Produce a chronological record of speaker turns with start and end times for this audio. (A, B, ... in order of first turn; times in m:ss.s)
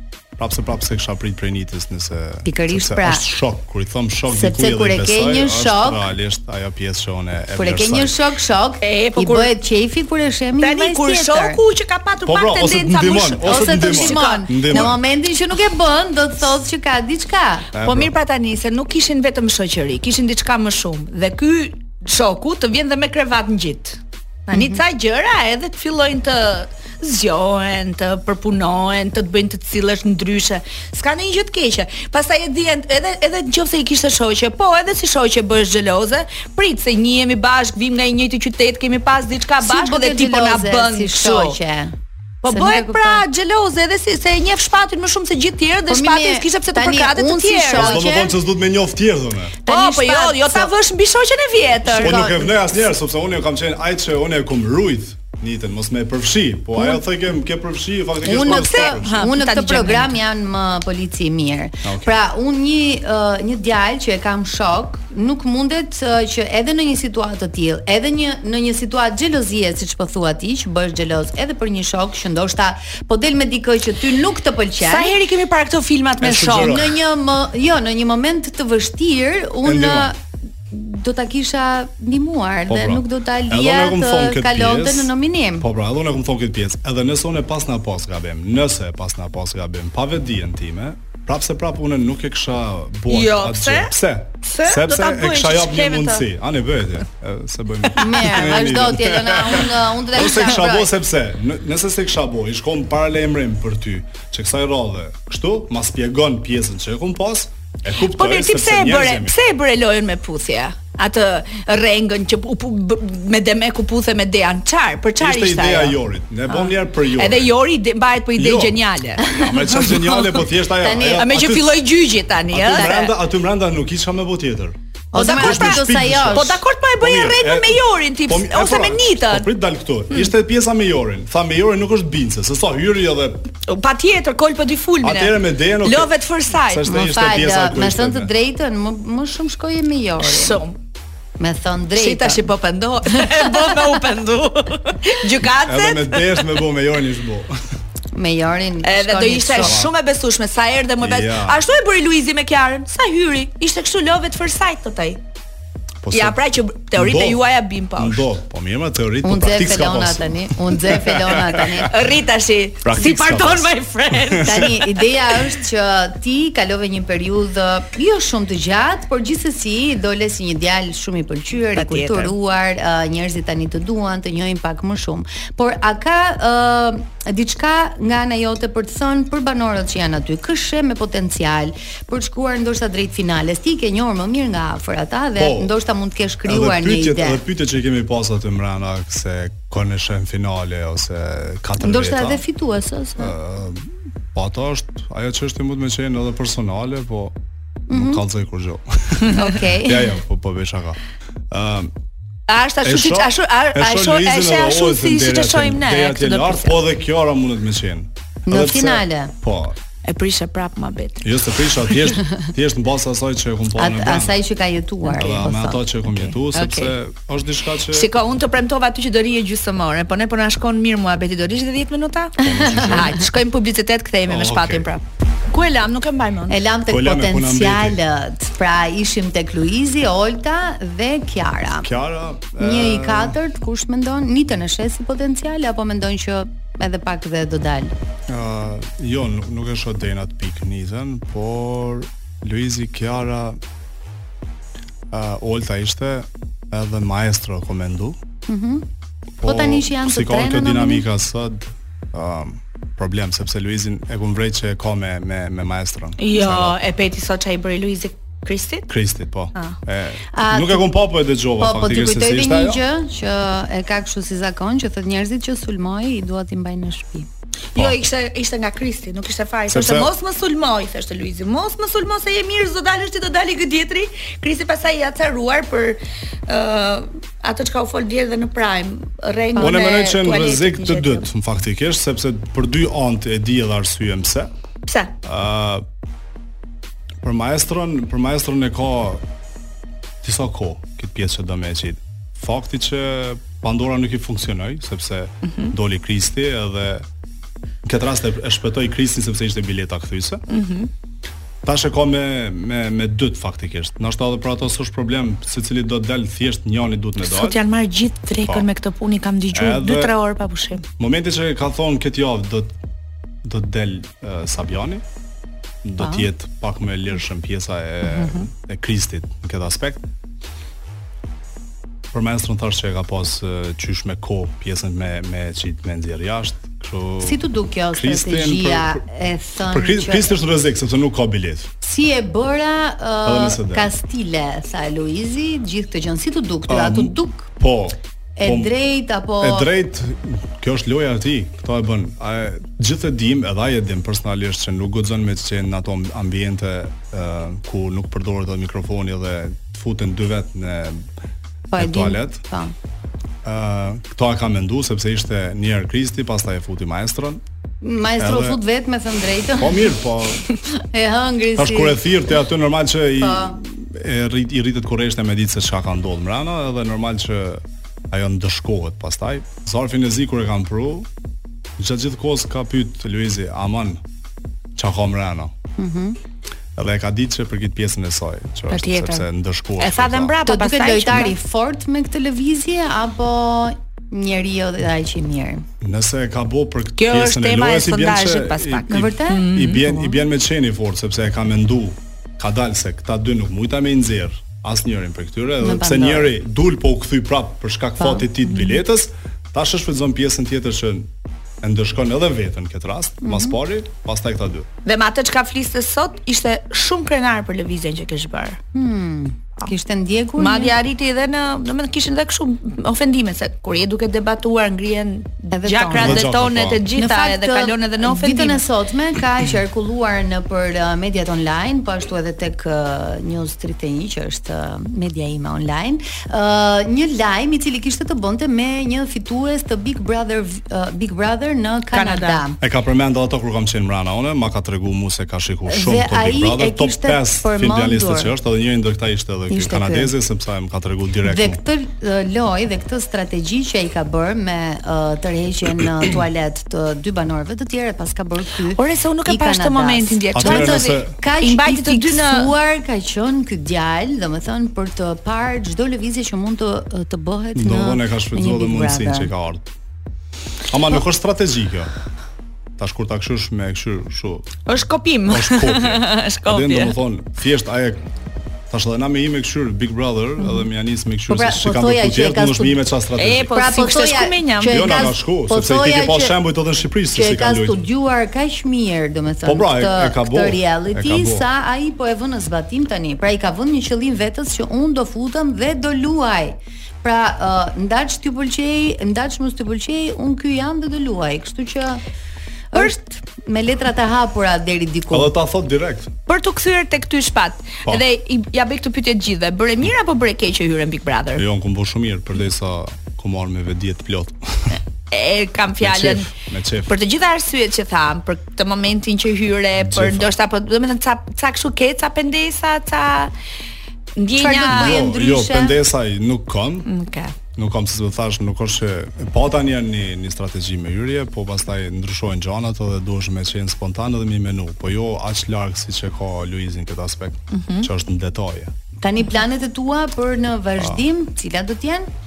0:00.4-0:08.2 A
0:02.4-0:03.3 B
0:04.3-0:06.1 B
0:07.6-0:11.6 B
0:08.8-0:09.6 C
0:10.6-0:15.0 C
0:12.3-0:15.0 A
0:13.5-0:17.7 B
0:17.7-0:18.1 A
0:17.8-0:41.6 C
0:24.5-0:24.8 B
0:39.6-0:41.9 B
0:42.4-0:48.0 C
0:42.5-0:43.2 B
0:45.9-0:48.4 B
0:47.7-0:49.6 A
0:49.7-0:50.7 B
0:49.7-0:52.2 C
0:51.8-0:52.7 B
0:52.0-0:59.2 A
0:56.8-0:57.0 B
0:58.2-1:15.1 B
0:58.3-1:00.2 C
1:01.8-1:02.2 A
1:14.8-1:16.8 C
1:16.2-1:17.0 A
1:16.5-1:20.2 B
1:19.6-1:20.1 A
1:20.7-1:25.7 B
1:22.7-1:49.4 A
1:33.1-1:33.9 C
1:34.4-1:36.2 C
1:38.0-1:40.9 B
1:48.1-1:56.0 C
1:55.2-1:57.5 A
1:56.5-2:00.4 C
1:58.4-2:01.8 A
1:59.2-1:59.9 B
2:00.7-2:01.3 B
2:01.2-2:03.1 C
2:02.5-2:13.5 A
2:02.7-2:03.1 B
2:05.1-2:06.6 B
2:05.2-2:09.5 C
2:13.7-2:16.9 C
2:15.0-2:18.3 A
2:16.9-2:20.6 B
2:20.2-2:20.8 C
2:21.4-2:22.5 B
2:22.0-2:26.6 C
2:23.1-2:23.8 B
2:25.6-2:27.5 A
2:28.1-2:29.8 B
2:28.8-2:35.2 C
2:29.6-2:29.9 A
2:31.0-2:31.6 A
2:36.0-2:36.4 A
2:36.1-2:38.3 C
2:36.9-2:37.4 A
2:38.0-2:41.9 A
2:39.2-2:41.9 B
2:41.8-2:45.5 C
2:42.8-2:44.7 A
2:44.4-3:07.4 B
2:51.8-2:52.3 C
3:05.4-3:05.7 A
3:06.4-3:12.4 A
3:11.8-3:13.4 B
3:13.2-3:17.4 A
3:17.9-3:18.2 B
3:17.9-3:21.0 A
3:19.3-3:20.1 B
3:21.5-3:21.9 A
3:22.5-3:26.8 C
3:22.8-3:29.8 A
3:28.5-3:29.3 B
3:30.0-3:31.3 C
3:31.2-3:34.4 A
3:33.8-3:35.8 B
3:35.1-3:38.1 A
3:36.5-3:37.0 C
3:37.9-3:46.6 C
3:42.4-3:43.2 B
3:42.4-3:43.2 A
3:44.3-3:44.9 A
3:46.5-3:51.9 B
3:46.9-3:48.0 A
3:51.8-3:53.4 A
3:52.6-3:57.9 B
3:58.3-4:03.6 A
4:05.1-4:08.2 A
4:08.5-4:08.9 B
4:09.4-4:16.8 A
4:09.4-4:11.1 B
4:16.2-4:18.9 C
4:18.9-4:22.8 A
4:20.3-4:20.9 B
4:21.6-4:27.3 B
4:27.8-4:41.3 C
4:29.7-4:30.1 A
4:39.6-4:39.8 B
4:39.6-4:44.5 A
4:44.9-4:45.1 C
4:45.2-4:45.8 A
4:47.2-4:49.2 A
4:50.2-4:57.1 A
4:55.5-4:55.7 C
4:57.8-5:00.4 A
5:00.5-5:00.9 C
5:01.6-5:07.6 A
5:07.2-5:10.8 C
5:09.5-5:10.2 A
5:11.0-5:12.8 A
5:13.4-5:15.0 A
5:15.8-5:20.0 A
5:16.0-5:16.3 B
5:18.1-5:18.4 C
5:22.1-5:29.0 A
5:27.2-5:30.4 B
5:29.7-5:31.7 A
5:31.8-5:37.5 B
5:33.2-5:33.9 A
5:36.7-5:38.7 A
5:38.4-5:39.7 B
5:39.4-5:51.1 A
5:51.7-5:52.7 B
5:51.8-5:52.4 A
5:53.4-5:57.4 A
5:57.8-6:00.0 B
5:58.2-5:58.6 A
5:59.6-6:00.5 A
6:00.9-6:02.2 B
6:01.6-6:11.1 A
6:03.2-6:03.6 B
6:11.8-6:14.0 A
6:14.8-6:15.5 A
6:15.8-6:16.2 B
6:16.8-6:20.4 A
6:18.7-6:19.3 C
6:19.8-6:21.4 C
6:20.4-6:25.6 B
6:25.8-6:41.1 A
6:27.0-6:29.8 C
6:28.9-6:30.2 B
6:35.6-6:36.3 B
6:38.0-6:38.7 B
6:41.6-6:44.7 A
6:43.2-6:43.6 B
6:44.8-6:48.6 C
6:48.7-6:50.8 B
6:50.4-6:58.6 C
6:55.5-6:56.3 B
6:55.9-6:56.8 A
6:56.9-7:12.6 B
7:11.9-7:12.4 C
7:12.6-7:21.6 A
7:15.7-7:18.3 B
7:19.5-7:20.1 B
7:21.2-7:39.3 B
7:28.8-7:32.5 C
7:30.3-7:31.1 A
7:37.6-7:39.7 A
7:40.7-7:41.9 A
7:42.8-7:44.5 A
7:44.7-7:47.0 C
7:45.3-7:48.0 A
7:48.7-7:53.5 A
7:51.3-7:52.8 B
7:53.2-7:55.0 C
7:53.5-7:56.4 B
7:54.7-7:57.8 A
7:57.1-8:12.0 B
7:59.4-8:01.5 A
8:12.7-8:15.3 B
8:15.1-8:16.1 A
8:16.3-8:21.4 C
8:21.4-8:24.8 A
8:25.1-8:26.3 C
8:25.8-8:27.0 A
8:26.9-8:33.3 C
8:29.8-8:30.3 A
8:34.2-8:35.1 C
8:34.4-8:35.8 B
8:34.6-8:36.9 A
8:36.9-8:37.4 C
8:37.6-8:48.7 A
8:47.5-8:47.9 C
8:49.0-8:52.1 B